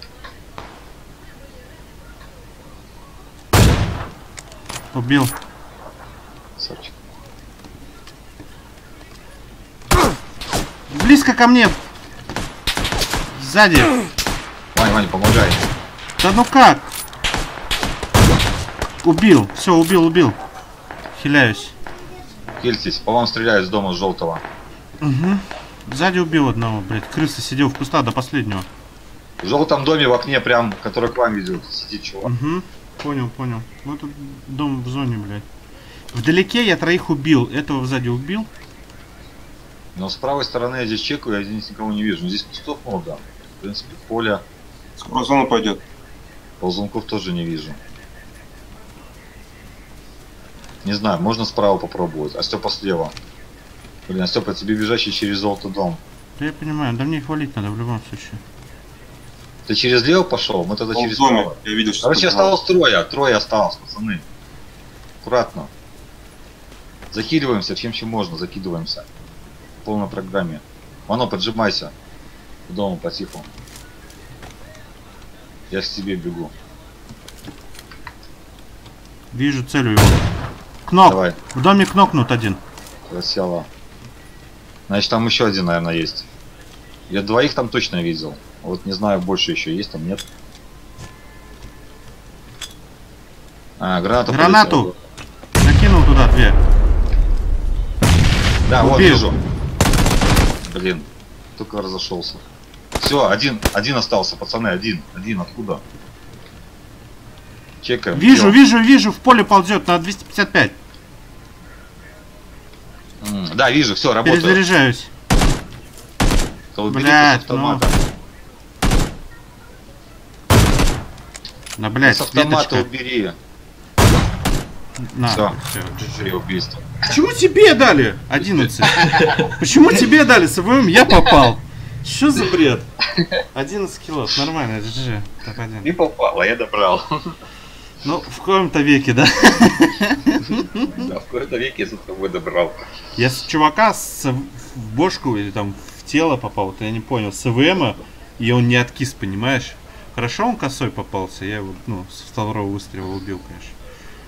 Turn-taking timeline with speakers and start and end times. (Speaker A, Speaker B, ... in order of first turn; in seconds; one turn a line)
Speaker A: 4.9-5.3
Speaker B: 6.6-6.9
Speaker A: 10.9-11.8
Speaker A: 13.3-14.0
Speaker B: 14.7-15.6
Speaker A: 16.2-16.9
Speaker A: 19.0-20.4
Speaker A: 21.1-21.7
Speaker B: 22.6-24.4
Speaker A: 25.0-28.7
Speaker B: 29.4-32.3
Speaker A: 32.2-35.4
Speaker A: 36.1-38.5
Speaker B: 40.0-44.4
Speaker C: 45.0-45.8
Speaker B: 46.6-47.8
Speaker B: 50.8-53.1
Speaker B: 54.1-56.0
Speaker A: 56.4-58.4
Speaker B: 59.7-64.2
Speaker C: 60.9-62.5
Speaker B: 65.2-65.7
Speaker B: 67.1-69.1
Speaker B: 69.8-71.9
Speaker B: 72.7-73.5
Speaker B: 75.7-76.5
Speaker A: 79.3-80.2
Speaker A: 80.9-82.6
Speaker B: 81.0-81.4
Speaker B: 83.1-83.7
Speaker B: 84.9-86.3
Speaker B: 87.1-90.2
Speaker B: 93.8-94.9
Speaker A: 94.3-94.9
Speaker A: 95.6-96.6
Speaker B: 98.7-99.4
Speaker A: 98.8-99.3
Speaker B: 100.6-102.4
Speaker B: 103.0-105.8
Speaker B: 107.8-108.6
Speaker A: 108.1-110.8
Speaker B: 113.2-114.6
Speaker A: 114.2-115.1
Speaker B: 116.7-118.0
Speaker A: 116.9-117.8
Speaker A: 121.8-122.9
Speaker B: 122.0-123.4
Speaker A: 125.0-126.3
Speaker B: 125.3-126.9
Speaker A: 127.0-132.9
Speaker A: 133.5-135.9
Speaker B: 135.8-137.3
Speaker A: 138.0-140.9
Speaker B: 140.4-142.8
Speaker A: 143.2-153.8